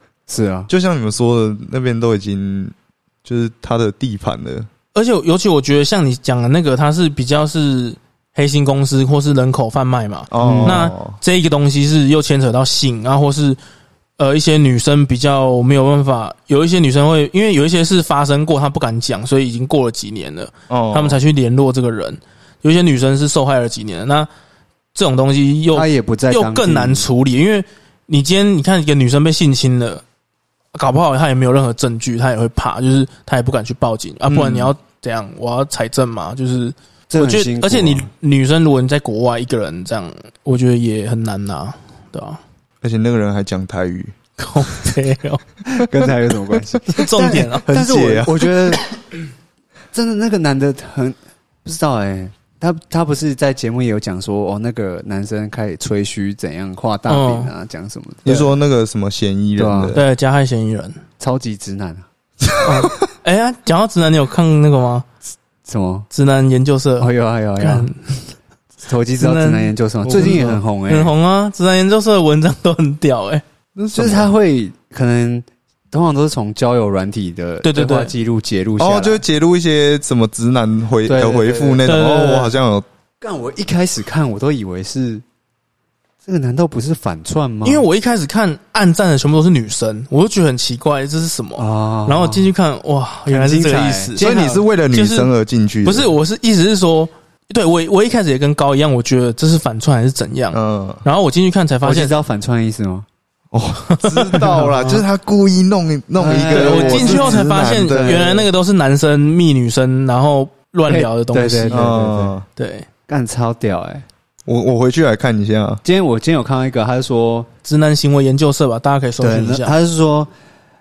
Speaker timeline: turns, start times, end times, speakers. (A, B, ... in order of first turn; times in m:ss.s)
0:00.3-0:00.7 A
0:00.7-0:04.7 B
0:04.9-0:13.6 C
0:10.3-0:11.2 B
0:10.4-0:10.8 A
0:14.2-0:24.3 C
0:20.7-0:21.2 B
0:25.0-0:30.0 C
0:25.7-0:27.1 A
0:30.8-0:42.4 C
0:34.3-0:34.7 B
0:37.1-0:38.1 A
0:42.8-0:44.2 B
0:44.4-0:45.4 C
0:45.7-0:48.8 A
0:46.9-0:47.7 C
0:47.0-0:48.8 B
0:49.9-0:58.5 A
0:57.1-0:57.5 C
0:58.2-1:00.0 B
0:59.6-1:00.0 A
0:59.9-1:01.0 C
1:01.2-1:02.1 A
1:02.4-1:03.1 B
1:02.6-1:05.1 C
1:05.7-1:06.1 A
1:06.1-1:08.3 C
1:07.0-1:07.9 A
1:08.8-1:11.1 A
1:09.2-1:13.4 C
1:10.1-1:10.6 B
1:13.8-1:14.3 B
1:13.9-1:19.2 A
1:17.6-1:18.1 C
1:18.8-1:22.9 B
1:21.0-1:21.8 A
1:21.8-1:22.6 C
1:23.2-1:25.2 A
1:26.2-1:27.8 A
1:27.6-1:34.3 C
1:31.6-1:32.5 A
1:33.3-1:34.6 A
1:34.2-1:36.1 B
1:34.9-1:35.3 C
1:35.8-1:42.2 C
1:40.5-1:41.0 B
1:41.8-1:43.1 A
1:43.5-1:48.2 B
1:43.9-1:44.8 C
1:46.2-1:48.5 A
1:46.4-1:51.8 C
1:50.9-1:52.4 A
1:51.7-1:52.4 B
1:52.6-1:52.9 C
1:53.1-1:54.1 A
1:54.5-1:55.8 B
1:55.8-1:57.5 A
1:57.6-1:59.7 C
1:59.2-2:00.3 A